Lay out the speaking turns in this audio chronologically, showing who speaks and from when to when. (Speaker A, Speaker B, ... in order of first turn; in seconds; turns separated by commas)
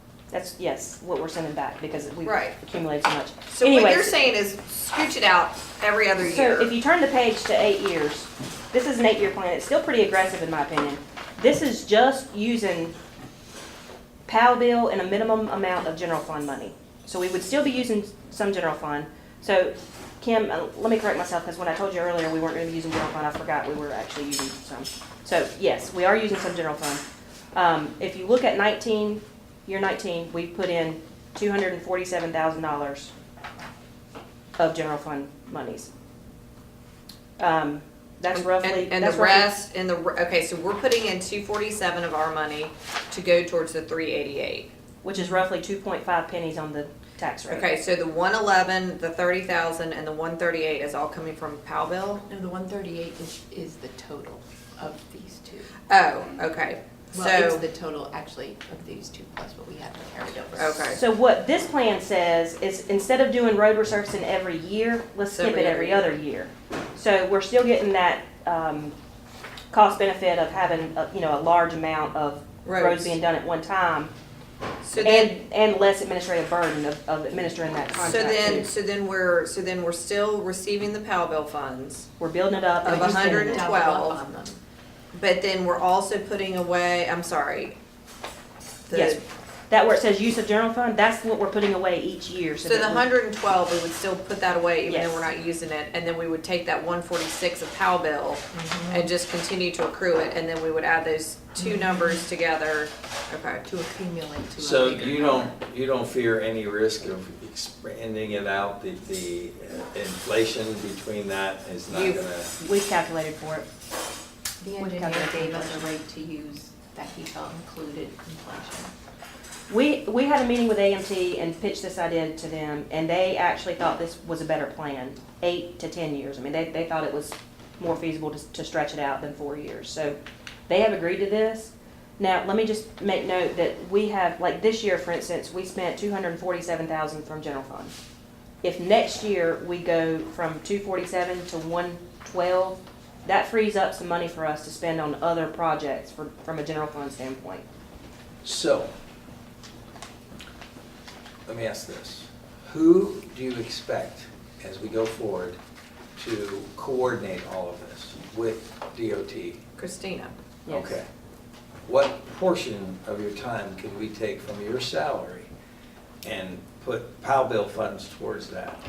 Speaker A: 0.3-4.3, Speaker B: 2.2-2.5, Speaker B: 3.5-6.7, Speaker A: 6.2-12.9, Speaker A: 14.3-27.0, Speaker A: 27.5-33.1, Speaker A: 34.6-35.9, Speaker A: 37.4-39.5, Speaker B: 38.3-44.7, Speaker A: 45.0-47.7, Speaker C: 45.1-45.4, Speaker B: 47.5-52.2, Speaker C: 52.2-55.7, Speaker B: 55.9-57.6, Speaker C: 57.1-61.0, Speaker B: 60.5-61.0, Speaker A: 60.9-68.9, Speaker B: 65.3-66.1, Speaker A: 69.7-74.1, Speaker B: 72.6-73.1, Speaker B: 74.8-75.3, Speaker A: 75.0-78.7, Speaker B: 78.0-82.1, Speaker A: 82.2-83.8, Speaker B: 82.8-84.2, Speaker C: 82.8-84.6, Speaker B: 85.1-87.7, Speaker B: 88.9-89.2, Speaker A: 88.9-93.0, Speaker B: 92.6-103.6, Speaker A: 94.9-95.2, Speaker C: 98.5-99.1, Speaker C: 101.6-102.2, Speaker C: 103.6-105.5, Speaker D: 104.6-112.5, Speaker B: 111.9-112.2, Speaker A: 112.6-113.7, Speaker C: 114.6-118.9, Speaker A: 114.8-115.8, Speaker A: 119.7-130.2, Speaker A: 130.7-137.9, Speaker A: 138.6-147.6, Speaker D: 148.4-148.9, Speaker D: 151.4-155.6, Speaker D: 156.2-159.6, Speaker B: 159.8-160.3, Speaker A: 160.7-161.0, Speaker D: 160.7-161.1, Speaker D: 161.8-165.5, Speaker D: 166.2-168.8